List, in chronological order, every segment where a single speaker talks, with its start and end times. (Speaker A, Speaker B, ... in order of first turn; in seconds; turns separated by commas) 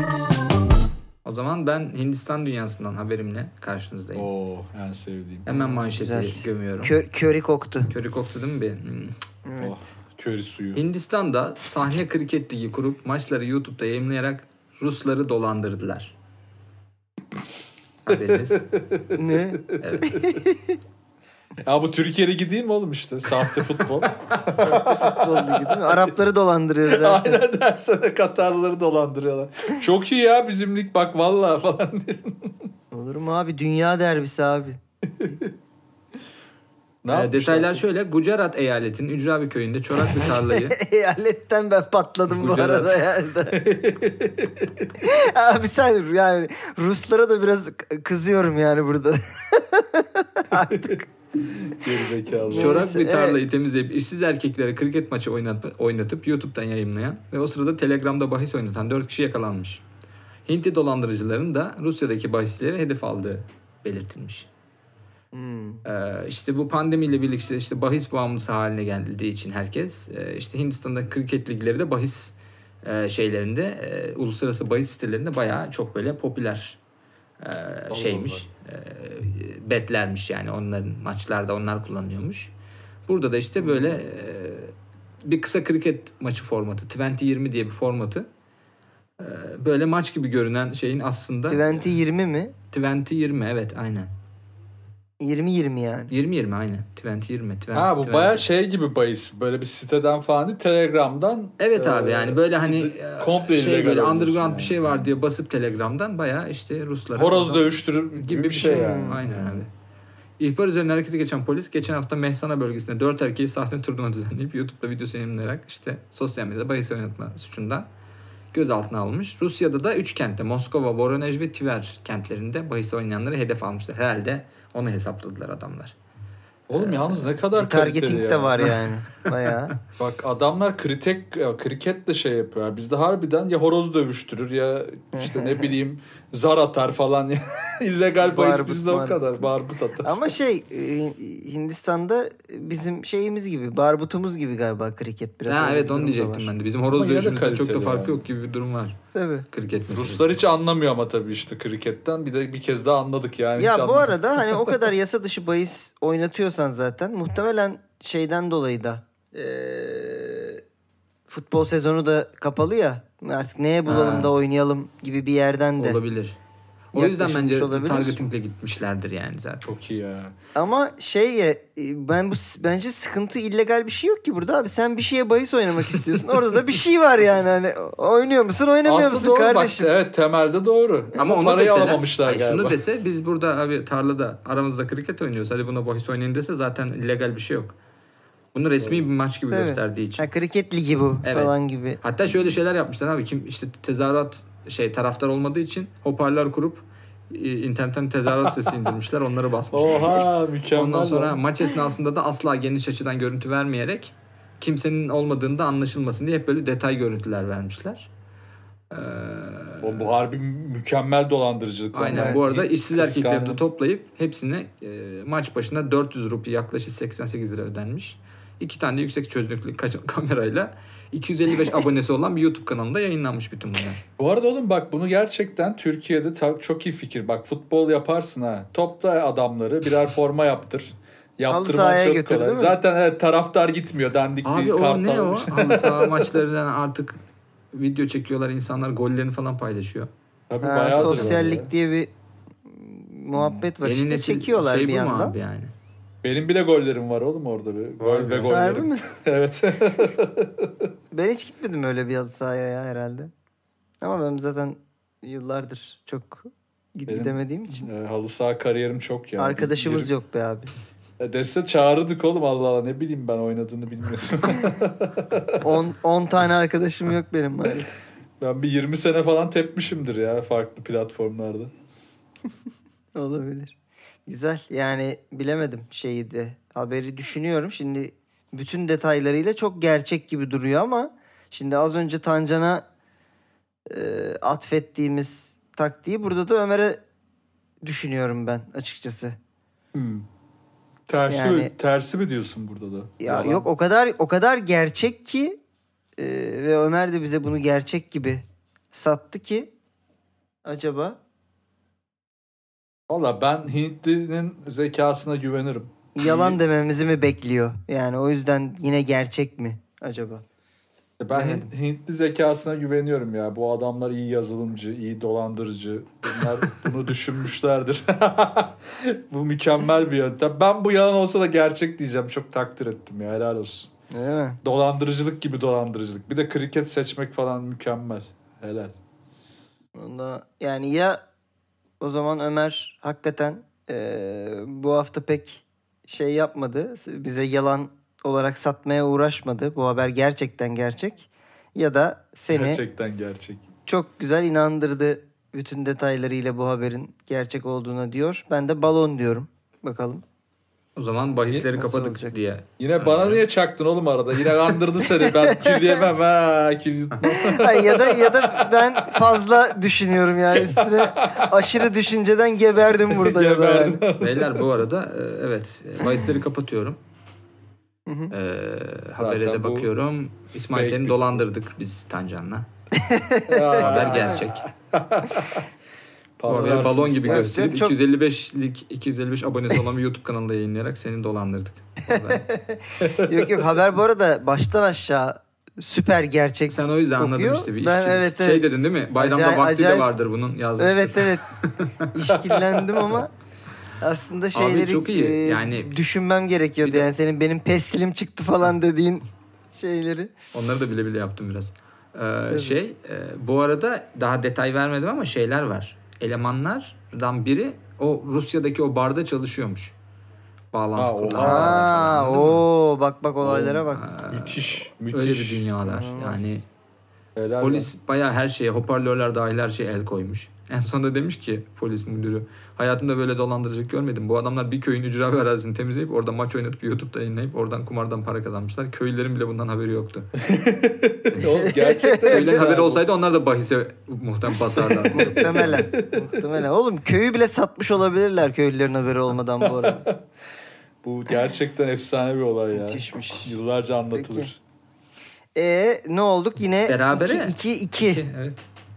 Speaker A: 1.2-4.3, Speaker B: 4.2-5.5, Speaker A: 5.5-7.0, Speaker C: 5.5-7.9, Speaker A: 7.9-9.2, Speaker C: 9.4-9.8, Speaker B: 9.6-10.8, Speaker A: 10.8-16.1, Speaker A: 18.1-18.7, Speaker B: 18.1-20.3, Speaker C: 19.1-20.8, Speaker A: 19.8-20.2, Speaker B: 21.6-26.1, Speaker C: 24.5-27.4, Speaker B: 26.9-32.5, Speaker C: 32.9-34.8, Speaker B: 35.1-35.5, Speaker B: 37.0-37.8, Speaker A: 37.1-40.8, Speaker C: 40.1-43.6, Speaker A: 42.3-43.0, Speaker B: 43.5-45.0, Speaker C: 45.0-51.1, Speaker B: 50.7-52.8, Speaker C: 52.4-53.4, Speaker A: 52.5-59.8, Speaker A: 60.5-64.5, Speaker C: 65.3-65.8, Speaker A: 65.8-76.8, Speaker A: 77.4-82.5, Speaker B: 77.9-78.4, Speaker A: 83.1-88.3, Speaker C: 83.6-84.0, Speaker A: 89.2-92.0, Speaker C: 91.5-92.5, Speaker A: 92.7-94.1, Speaker C: 95.2-96.1, Speaker A: 96.1-98.5, Speaker B: 97.7-105.1, Speaker A: 101.6-109.7, Speaker B: 107.2-109.6, Speaker C: 108.6-109.2, Speaker A: 110.4-117.9, Speaker A: 118.5-126.0, Speaker A: 126.7-127.3, Speaker B: 126.7-128.8, Speaker C: 127.5-129.8, Speaker B: 130.0-140.2, Speaker C: 135.2-135.8, Speaker C: 138.2-139.5, Speaker C: 140.0-146.5, Speaker A: 145.5-149.0, Speaker B: 146.9-148.3, Speaker C: 149.2-149.5, Speaker A: 149.5-150.4, Speaker B: 149.9-154.6, Speaker C: 153.6-160.6, Speaker C: 161.3-166.0, Speaker A: 163.9-164.3, Speaker A: 165.8-166.4, Speaker A: 166.9-169.7, Speaker C: 166.9-168.2, Speaker B: 169.7-170.4, Speaker C: 170.6-179.9, Speaker B: 178.8-182.8, Speaker A: 181.2-187.8, Speaker A: 188.5-190.3, Speaker B: 188.8-189.1, Speaker C: 189.5-192.0, Speaker A: 191.2-208.1, Speaker B: 199.7-201.4, Speaker A: 208.9-210.1, Speaker B: 209.8-213.6, Speaker A: 211.9-224.0, Speaker C: 212.1-212.7, Speaker B: 224.2-236.4, Speaker C: 231.5-232.8, Speaker A: 234.4-237.2, Speaker A: 237.7-240.1, Speaker B: 240.5-241.7, Speaker C: 240.6-242.1, Speaker A: 241.0-241.4, Speaker C: 242.7-245.3, Speaker B: 243.3-243.7, Speaker A: 243.8-245.7, Speaker B: 246.2-250.7, Speaker A: 248.0-248.8, Speaker C: 248.5-249.0, Speaker C: 251.1-253.3, Speaker C: 254.0-257.9, Speaker B: 257.1-260.1, Speaker C: 259.4-260.7, Speaker B: 261.2-265.7, Speaker C: 265.6-268.0, Speaker B: 268.4-271.7, Speaker C: 273.1-273.8, Speaker C: 274.3-282.9, Speaker C: 283.9-287.0, Speaker C: 287.8-289.4, Speaker B: 289.9-290.2, Speaker B: 291.1-293.7, Speaker C: 291.3-291.7, Speaker C: 293.2-295.6, Speaker C: 296.2-299.7, Speaker C: 300.6-301.2, Speaker B: 303.1-306.6, Speaker C: 306.2-310.4, Speaker B: 311.2-323.9, Speaker C: 311.3-311.7, Speaker C: 324.1-324.6, Speaker B: 324.6-328.9, Speaker C: 330.0-331.2, Speaker C: 332.0-342.8, Speaker B: 342.5-343.7, Speaker C: 343.9-350.2, Speaker A: 351.0-353.5, Speaker C: 351.7-352.3, Speaker B: 352.8-359.4, Speaker C: 355.2-356.1, Speaker C: 357.2-364.0, Speaker B: 360.6-361.9, Speaker B: 363.1-364.6, Speaker A: 364.2-367.0, Speaker C: 368.1-368.3, Speaker A: 368.3-372.7, Speaker B: 369.2-369.9, Speaker B: 370.7-371.4, Speaker C: 372.9-374.4, Speaker B: 373.5-375.7, Speaker A: 373.8-374.6, Speaker B: 376.4-377.6, Speaker A: 376.5-382.4, Speaker C: 376.5-378.0, Speaker C: 382.1-390.1, Speaker B: 383.0-383.6, Speaker A: 386.7-392.1, Speaker C: 390.8-391.5, Speaker C: 392.1-393.3, Speaker B: 392.3-393.2, Speaker C: 394.0-400.3, Speaker A: 394.5-395.9, Speaker A: 396.8-397.1, Speaker A: 400.5-409.9, Speaker C: 402.5-402.8, Speaker A: 410.7-412.6, Speaker B: 411.0-411.9, Speaker C: 411.4-414.1, Speaker B: 413.4-415.7, Speaker A: 413.9-416.7, Speaker C: 415.8-416.6, Speaker B: 417.4-417.9, Speaker A: 417.6-430.3, Speaker B: 430.4-433.0, Speaker A: 431.3-431.7, Speaker C: 431.6-432.7, Speaker A: 432.3-435.9, Speaker B: 434.8-436.4, Speaker C: 435.1-440.1, Speaker B: 439.6-440.2, Speaker B: 441.0-444.6, Speaker C: 442.7-443.6, Speaker C: 444.1-444.5, Speaker C: 445.6-448.2, Speaker A: 446.9-448.7